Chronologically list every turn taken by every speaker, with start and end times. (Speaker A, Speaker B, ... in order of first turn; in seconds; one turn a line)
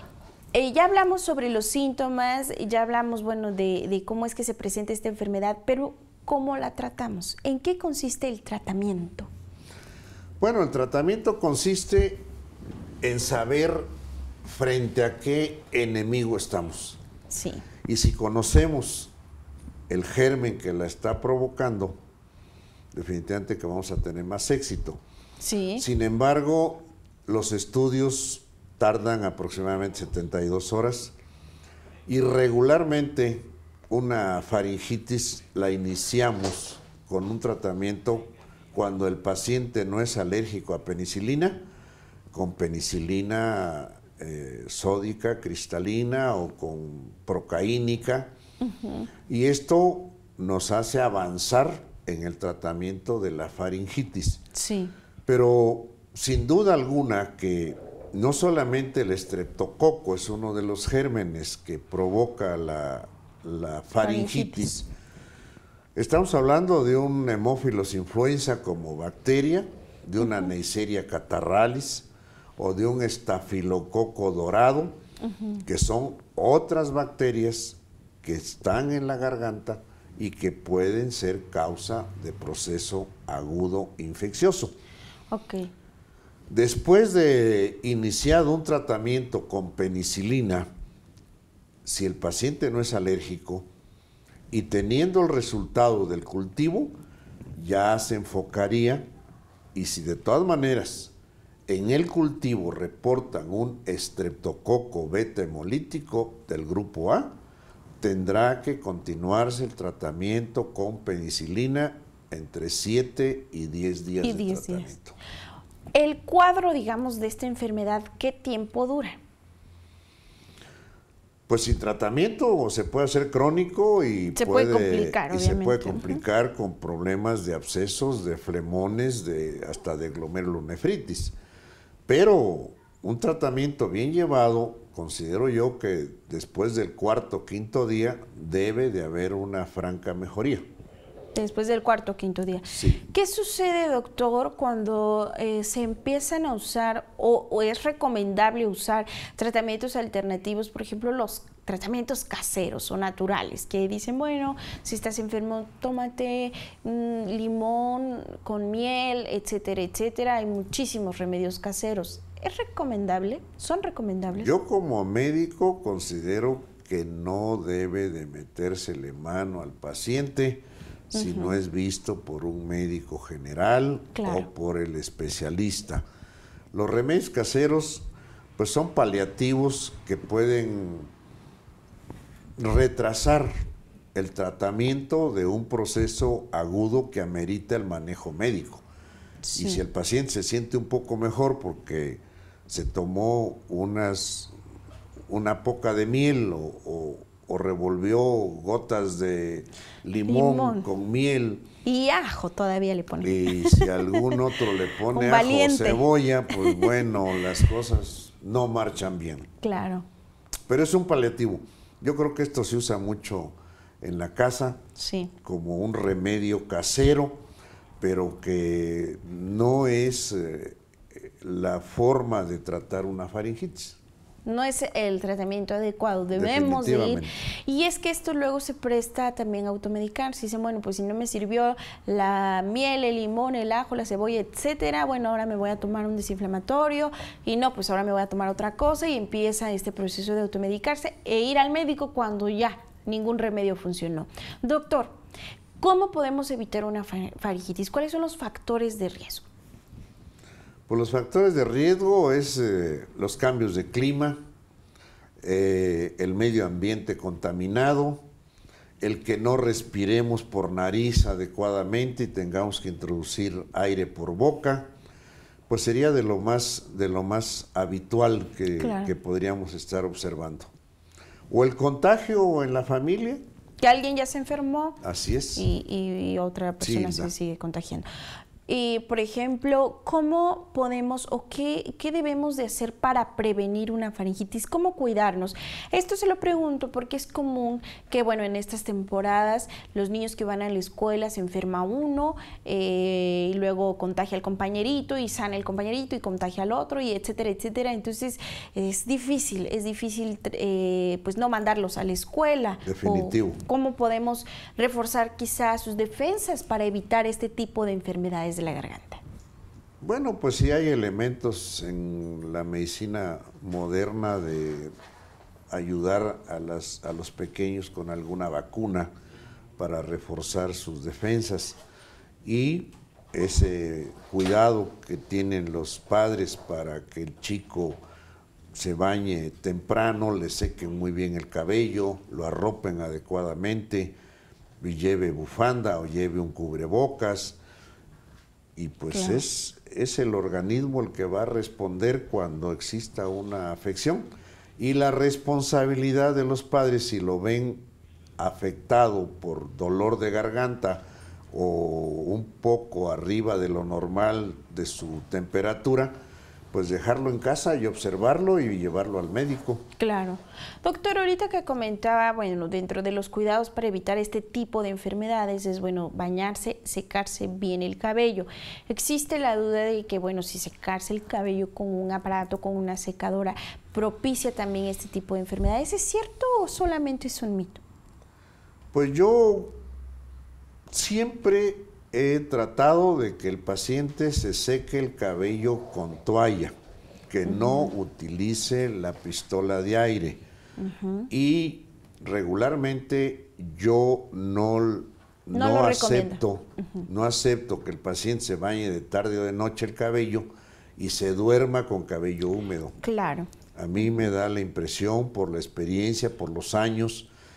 Speaker A: 0.5-9.3
Speaker B: 10.4-12.3
Speaker B: 13.0-13.9
Speaker B: 14.4-17.0
Speaker A: 17.3-17.6
Speaker B: 17.8-19.1
Speaker B: 19.9-22.0
Speaker B: 22.9-25.0
Speaker A: 25.4-25.8
Speaker B: 25.8-31.1
Speaker B: 32.1-41.6
Speaker B: 42.3-48.3
Speaker A: 48.6-49.1
Speaker B: 49.3-54.4
Speaker A: 54.5-54.9
Speaker B: 55.3-64.9
Speaker A: 64.0-64.7
Speaker B: 65.9-75.0
Speaker A: 75.3-75.6
Speaker B: 75.6-84.7
Speaker A: 85.3-85.7
Speaker B: 86.5-90.7
Speaker B: 91.8-93.7
Speaker B: 94.5-97.0
Speaker B: 97.5-99.1
Speaker B: 99.7-101.1
Speaker B: 101.7-107.3
Speaker B: 108.0-115.2
Speaker A: 114.2-114.9
Speaker A: 115.9-119.2
Speaker B: 121.5-131.3
Speaker A: 124.3-126.2
Speaker B: 132.1-140.6
Speaker A: 141.3-164.5
Speaker B: 142.7-143.0
Speaker B: 164.3-176.0
Speaker A: 171.1-171.6
Speaker A: 174.1-174.5
Speaker B: 176.7-181.1
Speaker B: 182.6-183.5
Speaker B: 184.1-188.8
Speaker A: 189.4-189.8
Speaker B: 189.5-194.5
Speaker B: 195.3-201.7
Speaker A: 200.2-200.8
Speaker A: 201.8-204.3
Speaker B: 203.2-209.5
Speaker A: 205.1-207.1
Speaker A: 209.6-210.1
Speaker B: 210.7-214.8
Speaker A: 214.9-215.3
Speaker B: 215.4-217.4
Speaker B: 218.0-224.0
Speaker A: 224.4-245.1
Speaker B: 226.3-227.3
Speaker A: 245.8-249.4
Speaker B: 250.9-254.4
Speaker B: 255.4-258.2
Speaker B: 259.0-264.9
Speaker B: 265.7-270.7
Speaker A: 268.8-269.1
Speaker B: 271.5-273.4
Speaker A: 273.8-275.0
Speaker B: 275.0-275.6
Speaker A: 275.5-278.1
Speaker B: 276.8-277.3
Speaker A: 278.7-309.2
Speaker B: 302.8-303.6
Speaker B: 310.0-314.9
Speaker B: 315.7-319.1
Speaker B: 319.8-321.8
Speaker B: 322.4-328.0
Speaker B: 328.7-334.2
Speaker B: 334.8-337.6
Speaker B: 338.8-347.9
Speaker A: 339.1-339.4
Speaker B: 348.4-356.1
Speaker B: 356.7-359.8
Speaker A: 360.0-377.8
Speaker B: 378.9-379.8
Speaker B: 380.9-386.7
Speaker B: 387.3-390.4
Speaker A: 387.4-387.9
Speaker A: 390.8-391.3
Speaker B: 391.3-400.4
Speaker A: 395.5-396.4
Speaker B: 401.0-402.9
Speaker A: 403.0-403.5
Speaker B: 403.7-407.3